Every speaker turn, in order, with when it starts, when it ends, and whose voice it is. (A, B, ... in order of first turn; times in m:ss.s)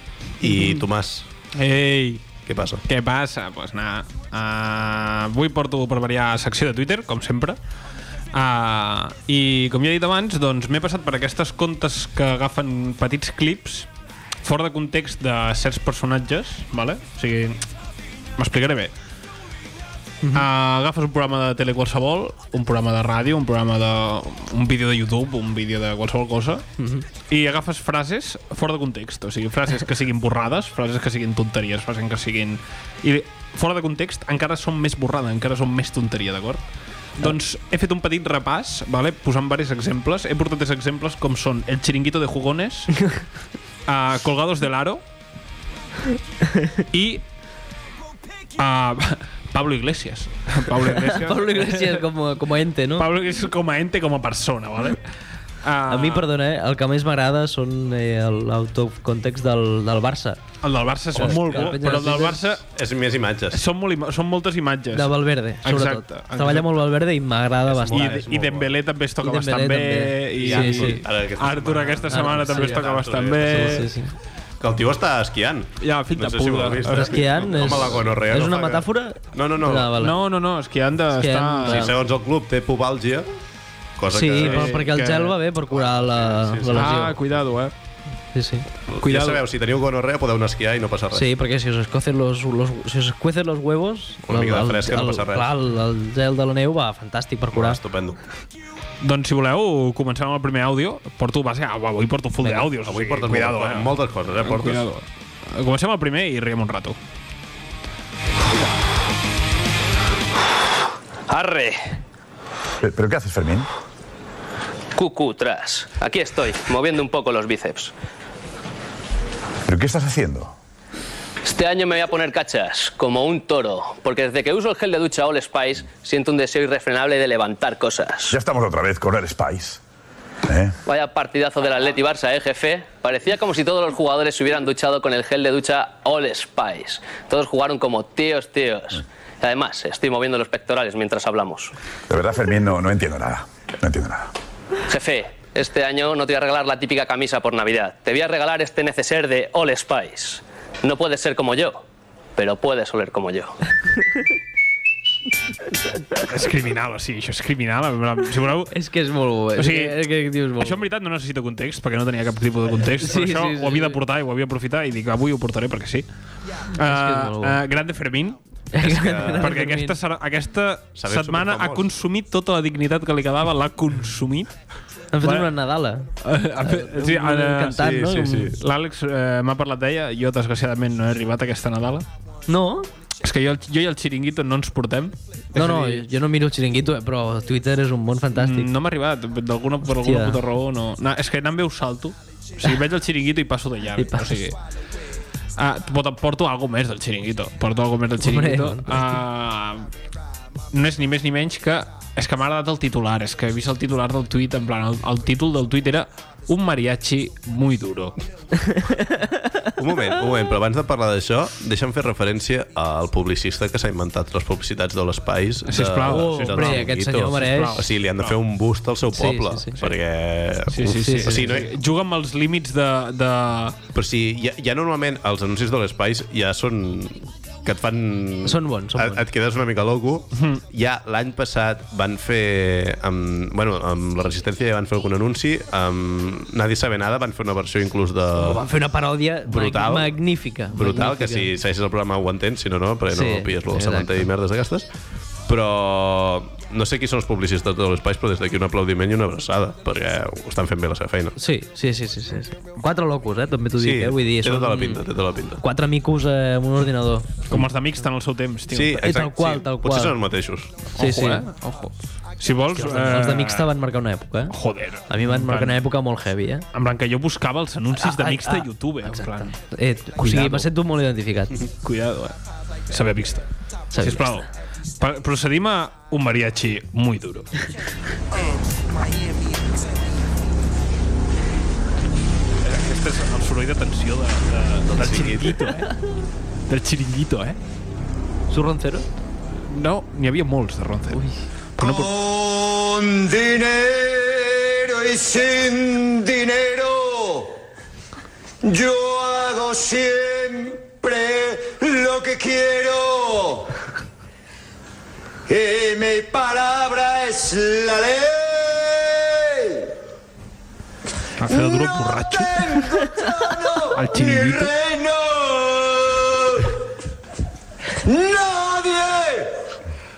0:00.4-0:01.3 A
0:01.5-0:02.2 B
0:02.4-0:02.8 A
0:02.9-0:07.6 B
0:08.3-0:13.9 B
0:14.4-0:17.6 B
0:18.4-0:18.9 B
0:20.3-0:26.6 B
0:26.8-0:27.0 C
0:27.3-0:36.6 B
0:37.2-0:43.0 B
0:43.9-0:45.0 B
0:46.9-0:47.2 B
0:48.6-0:52.0 B
0:50.8-0:53.1 C
0:53.0-0:55.0 B
0:55.6-0:56.3 B
0:55.9-1:00.4 C
1:00.6-1:02.6 B
1:01.1-1:02.5 C
1:01.2-1:01.7 A
1:02.7-1:03.6 A
1:03.5-1:06.7 B
1:04.9-1:08.7 C
1:07.7-1:13.9 B
1:09.2-1:11.0 C
1:10.4-1:13.9 A
1:12.1-1:12.8 C
1:13.5-1:14.1 C
1:14.6-1:20.0 A
1:15.8-1:18.1 B
1:16.9-1:20.1 C
1:20.0-1:21.9 B
1:21.1-1:21.9 C
1:21.6-1:23.2 A
1:24.0-1:27.0 A
1:24.1-1:27.2 C
1:24.3-1:24.9 B
1:26.7-1:27.7 B
1:28.3-1:28.6 C
1:29.0-1:29.4 B
1:29.0-1:31.3 A
1:31.1-1:37.8 C
1:34.2-1:35.5 A
1:37.5-1:38.2 A
1:39.0-1:47.0 B
1:42.7-1:44.8 A
1:51.3-1:51.9 D
1:52.8-1:53.7 E
1:54.9-1:57.9 D
1:59.6-2:00.5 E
2:01.4-2:08.3 D
2:08.3-2:09.8 E
2:10.4-2:10.8 E
2:10.8-2:21.7 D
2:22.1-2:24.3 E
2:24.9-2:31.8 D
2:32.4-2:33.6 D
2:36.2-2:38.7 B
2:38.7-2:40.8 C
2:39.5-2:40.0 B
2:40.6-2:46.1 B
2:43.0-2:44.0 C
2:46.7-2:48.4 B
2:46.8-2:47.6 C
2:48.7-2:50.0 C
2:48.8-2:49.6 A
2:49.2-2:54.5 B
2:50.9-2:51.9 A
2:55.1-2:58.6 C
2:55.2-2:55.5 B
2:56.2-3:02.1 B
2:57.7-2:58.6 A
3:02.5-3:02.9 C
3:03.2-3:06.0 B
3:05.5-3:08.7 C
3:08.3-3:14.6 B
3:10.0-3:10.4 C
3:14.0-3:14.4 C
3:15.6-3:19.9 B
3:18.2-3:19.0 C
3:20.7-3:28.2 B
3:29.8-3:41.7 A
3:35.6-3:38.4 B
3:36.0-3:37.8 C
3:39.1-3:39.9 C
3:40.7-3:43.8 B
3:41.0-3:41.4 C
3:43.9-3:58.7 A
3:48.4-3:49.2 C
3:50.4-3:50.6 B
3:58.4-4:01.5 C
3:59.4-4:00.1 A
4:00.7-4:04.9 A
4:03.1-4:04.2 C
4:05.5-4:11.4 A
4:11.4-4:15.0 C
4:13.8-4:15.6 A
4:15.6-4:17.6 C
4:17.5-4:19.3 B
4:18.7-4:20.7 A
4:19.0-4:20.2 C
4:21.0-4:21.4 C
4:21.0-4:23.7 B
4:22.7-4:24.6 C
4:24.5-4:25.8 B
4:25.1-4:26.6 C
4:26.7-4:29.5 B
4:27.9-4:31.5 C
4:30.2-4:30.7 B
4:31.8-4:32.4 B
4:32.9-4:33.4 B
4:33.9-4:34.3 C
4:34.0-4:34.5 B
4:35.0-4:37.5 B
4:42.6-4:45.9 B
4:44.9-4:45.6 A
4:46.7-4:47.6 B
4:48.5-4:49.0 C
4:49.5-4:51.2 B
4:51.1-4:51.4 C
4:51.8-4:52.1 B
4:51.8-4:57.6 F
4:58.6-5:03.7 F
5:05.5-5:09.9 F
5:11.4-5:12.7 B
5:11.4-5:16.7 F
5:13.9-5:14.7 B
5:18.0-5:19.5 F